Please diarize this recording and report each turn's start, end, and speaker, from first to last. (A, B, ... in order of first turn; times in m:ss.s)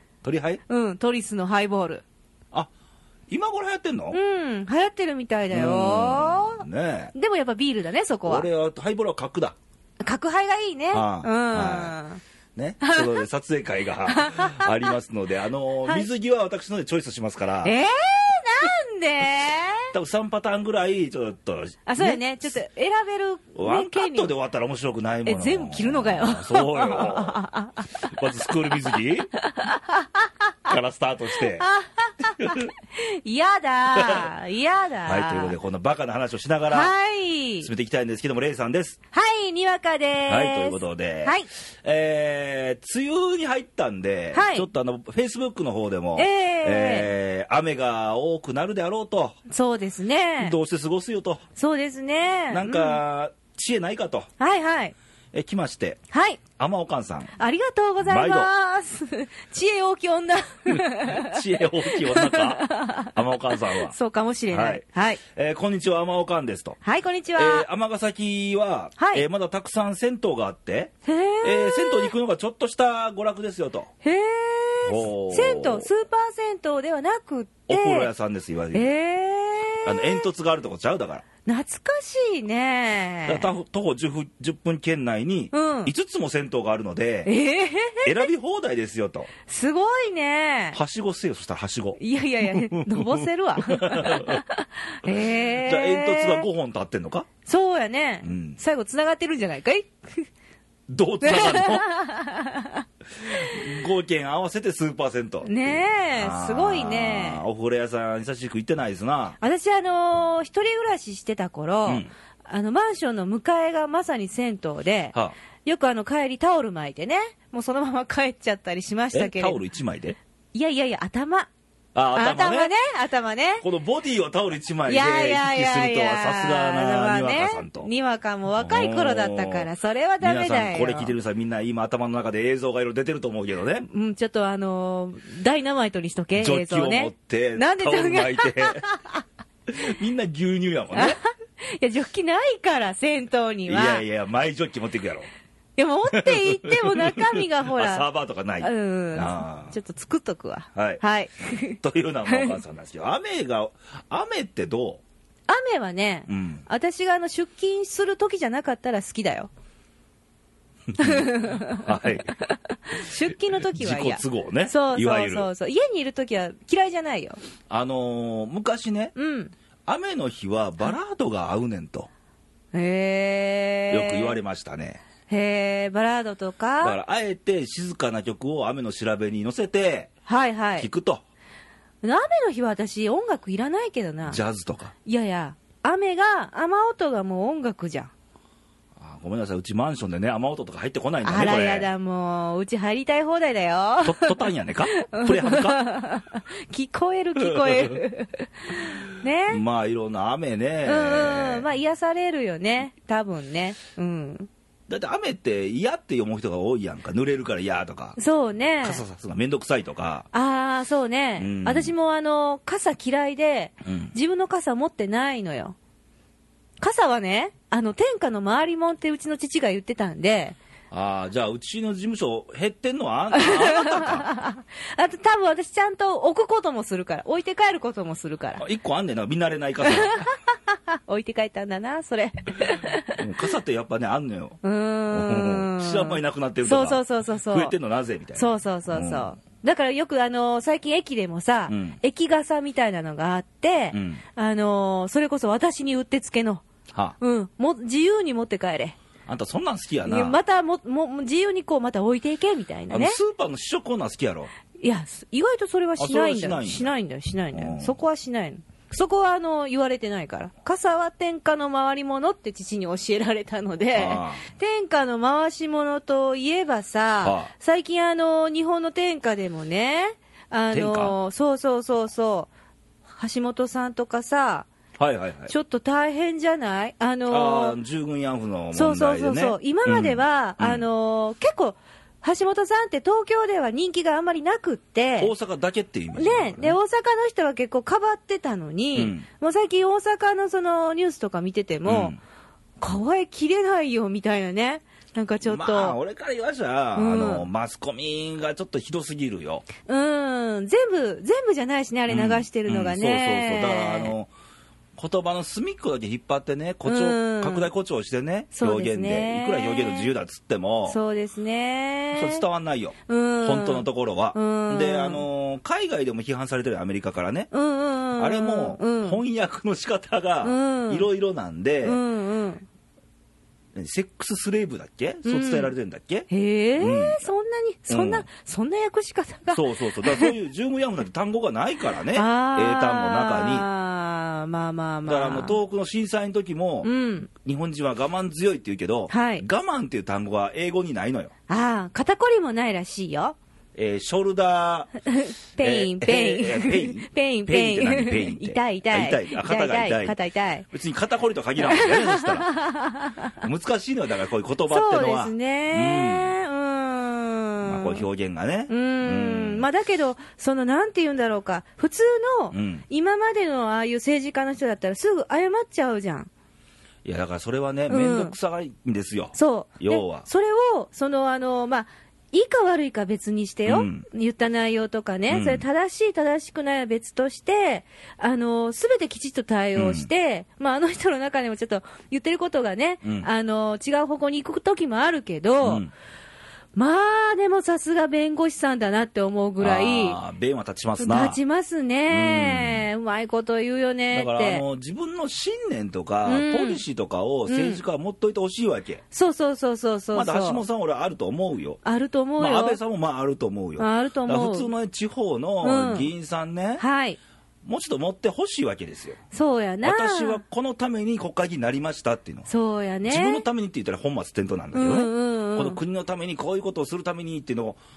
0:00.2-0:00.6 A
0:00.7-0:02.0 B
0:03.3-0:04.2 A
0:04.1-0:08.5 B
0:05.5-0:07.1 A
0:08.2-0:09.6 A
0:10.0-0:12.2 B
0:10.9-0:11.9 A
0:12.6-0:17.7 A
0:12.8-0:13.2 B
0:14.1-0:14.9 B
0:17.6-0:19.9 B
0:19.9-0:22.5 A
0:21.8-0:24.3 B
0:23.6-0:27.4 A
0:25.2-0:28.2 B
0:28.0-0:29.3 A
0:28.9-0:30.7 B
0:30.7-0:31.6 A
0:31.4-0:35.6 B
0:32.4-0:32.7 A
0:33.9-0:34.3 A
0:35.0-0:36.9 A
0:36.7-0:37.7 B
0:37.6-0:39.0 A
0:39.1-0:41.5 B
0:40.3-0:49.4 A
0:44.3-0:44.7 B
0:46.2-0:47.1 B
0:49.5-0:50.6 B
0:50.4-0:51.4 A
0:51.6-0:53.0 B
0:52.5-0:54.3 A
0:54.4-0:54.9 B
0:55.3-0:56.0 A
0:56.1-0:56.4 B
0:56.6-0:57.3 A
0:57.4-1:05.2 B
0:58.0-0:58.5 A
1:01.0-1:03.9 A
1:04.5-1:06.8 A
1:06.8-1:07.6 B
1:07.3-1:10.9 A
1:09.0-1:09.2 B
1:11.0-1:12.1 B
1:11.4-1:13.9 A
1:14.0-1:18.1 B
1:14.8-1:15.9 A
1:17.7-1:18.9 A
1:18.7-1:20.3 B
1:19.8-1:21.2 A
1:21.4-1:23.5 B
1:23.2-1:27.3 A
1:25.5-1:25.9 B
1:27.2-1:28.2 B
1:28.0-1:29.3 A
1:29.5-1:30.8 B
1:30.7-1:34.4 A
1:32.0-1:36.5 B
1:35.0-1:37.3 A
1:37.4-1:40.3 B
1:38.2-1:38.6 A
1:40.9-1:41.8 A
1:41.2-1:42.8 B
1:43.2-1:49.4 A
1:45.4-1:47.4 B
1:49.4-1:59.6 B
1:59.1-2:00.2 A
2:00.5-2:01.5 B
2:01.9-2:02.7 A
2:02.1-2:03.6 B
2:03.6-2:07.9 A
2:04.9-2:11.1 B
2:08.6-2:09.7 A
2:10.2-2:13.8 A
2:13.8-2:19.2 B
2:16.4-2:18.8 A
2:19.7-2:21.2 A
2:20.9-2:24.0 B
2:23.7-2:25.3 A
2:25.8-2:28.0 B
2:26.1-2:29.7 A
2:28.6-2:32.6 B
2:30.7-2:31.0 A
2:31.8-2:35.0 A
2:35.5-2:39.5 B
2:36.3-2:36.6 A
2:40.9-2:42.3 A
2:41.0-2:47.4 B
2:43.5-2:45.5 A
2:47.7-2:49.1 A
2:49.1-2:49.5 B
2:49.9-2:52.1 A
2:52.7-2:54.4 B
2:53.9-2:55.0 A
2:55.3-2:57.0 B
2:56.8-3:00.1 A
3:00.2-3:00.9 B
3:00.8-3:01.2 A
3:02.0-3:04.4 B
3:04.3-3:04.9 A
3:05.0-3:08.1 B
3:09.0-3:11.9 A
3:11.2-3:14.3 B
3:14.0-3:15.8 A
3:14.9-3:19.6 B
3:17.4-3:18.0 A
3:19.5-3:21.7 A
3:20.8-3:24.5 B
3:24.9-3:28.2 A
3:28.2-3:29.0 B
3:28.8-3:30.2 A
3:30.3-3:35.8 B
3:31.4-3:31.9 A
3:33.8-3:34.1 A
3:36.8-3:40.6 B
3:40.9-3:44.2 A
3:43.3-3:48.6 B
3:48.6-3:50.2 A
3:49.8-3:50.4 B
3:50.9-3:53.2 B
3:53.2-3:54.6 A
3:54.6-3:57.7 B
3:55.1-3:59.3 A
3:58.4-4:06.6 B
4:01.7-4:02.0 A
4:03.9-4:04.2 A
4:07.2-4:09.0 B
4:09.2-4:10.4 A
4:10.0-4:13.2 B
4:12.9-4:14.5 A
4:14.8-4:32.5 B
4:16.0-4:16.9 A
4:17.5-4:18.0 A
4:23.9-4:24.4 A
4:27.2-4:27.5 A
4:30.7-4:31.1 A
4:33.1-4:34.7 B
4:35.0-4:35.5 A
4:35.5-4:37.8 B
4:37.3-4:40.8 A
4:38.7-4:45.3 B
4:45.2-4:46.8 A
4:46.2-4:52.2 B
4:48.9-4:49.2 A
4:51.8-4:52.2 A
4:52.8-4:56.0 B
4:55.4-4:59.7 A
4:56.9-4:57.4 B
4:59.8-5:04.1 B
5:02.1-5:04.3 A
5:05.0-5:11.0 A
5:06.8-5:07.7 B
5:08.5-5:10.1 B
5:10.9-5:12.4 B
5:12.1-5:17.5 A
5:13.1-5:15.2 B
5:17.5-5:19.2 B
5:18.2-5:22.0 A
5:20.4-5:21.0 B
5:21.8-5:22.6 B
5:23.7-5:26.3 A
5:25.2-5:25.7 B
5:26.3-5:30.3 B
5:26.8-5:27.3 A
5:27.9-5:28.2 A
5:29.5-5:33.7 A
5:32.1-5:35.6 B
5:35.0-5:41.3 A
5:36.8-5:37.3 B
5:39.1-5:39.4 B
5:41.5-5:43.4 B
5:43.7-5:44.9 A
5:45.1-5:50.6 B
5:45.6-5:50.2 A
5:50.7-5:52.5 A
5:51.6-5:53.3 B
5:53.4-5:56.3 A
5:54.7-5:58.0 B
5:57.6-5:59.6 A
5:58.7-6:06.3 B
6:02.5-6:02.8 A
6:07.0-6:10.3 A
6:07.9-6:08.3 B
6:09.3-6:25.8 B
6:13.7-6:14.0 A
6:15.3-6:15.6 A
6:19.8-6:20.1 A
6:23.0-6:23.3 A
6:25.6-6:25.9 A
6:26.8-6:30.2 B
6:29.6-6:31.4 A
6:31.0-6:34.6 B
6:32.1-6:32.9 A
6:34.1-6:39.0 A
6:36.2-6:36.8 B
6:37.5-6:37.8 B
6:39.1-6:40.6 B
6:40.1-6:41.8 A
6:41.8-6:42.8 B
6:42.4-6:46.8 A
6:43.8-6:44.7 B
6:45.6-6:46.1 B
6:46.8-6:47.2 B
6:47.6-6:49.2 A
6:49.3-6:50.4 B
6:49.8-6:52.5 A
6:52.5-6:53.4 B
6:53.1-6:57.8 A
6:54.7-6:55.8 B